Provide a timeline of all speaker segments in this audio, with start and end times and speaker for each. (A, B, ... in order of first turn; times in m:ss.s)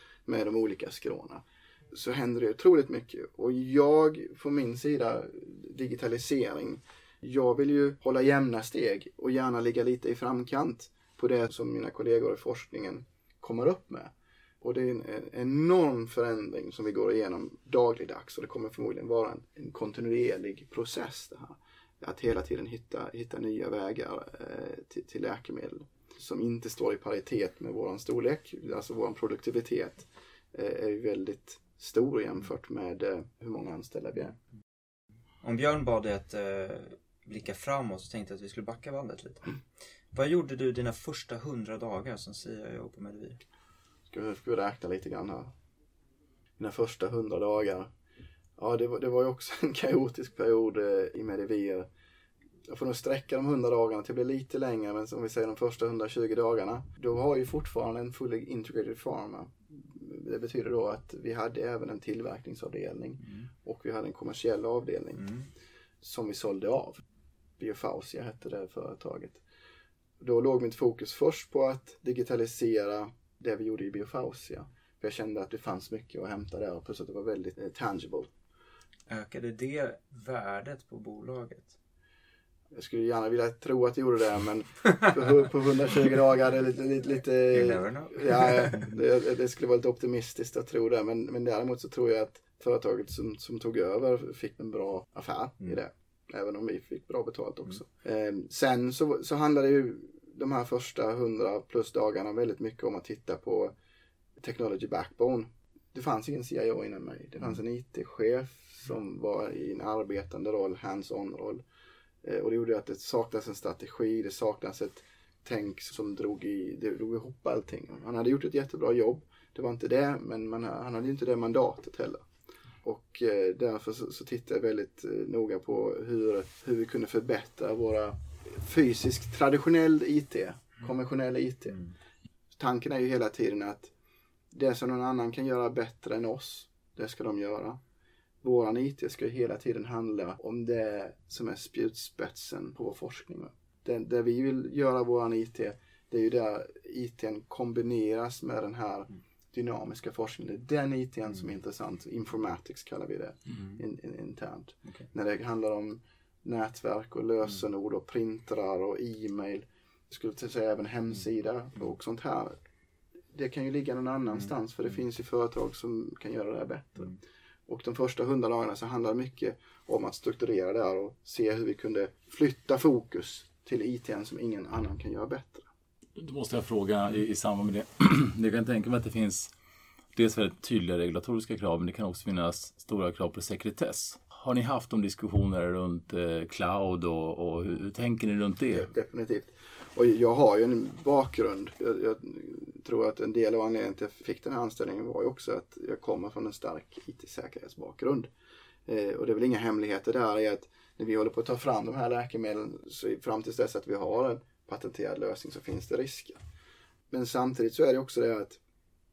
0:00.2-0:34.4 A
0:35.4-0:39.6 B
0:40.1-0:43.4 B
0:44.1-0:45.5 A
0:46.6-0:47.9 A
0:48.6-0:51.9 A
0:52.6-1:05.3 A
1:05.2-1:05.5 B
1:06.0-1:07.0 A
1:07.6-1:09.4 A
1:10.2-1:18.3 A
1:19.1-1:21.8 B
1:22.7-1:43.7 A
1:27.5-1:28.8 B
1:44.4-1:51.6 A
1:52.2-2:02.2 A
2:02.8-2:11.8 A
2:12.5-2:13.9 A
2:14.5-2:17.8 A
2:18.4-2:42.5 A
2:43.3-2:55.7 A
2:56.2-2:59.5 C
3:00.1-3:08.9 C
3:08.7-3:18.3 A
3:18.8-3:26.4 A
3:27.1-3:28.6 A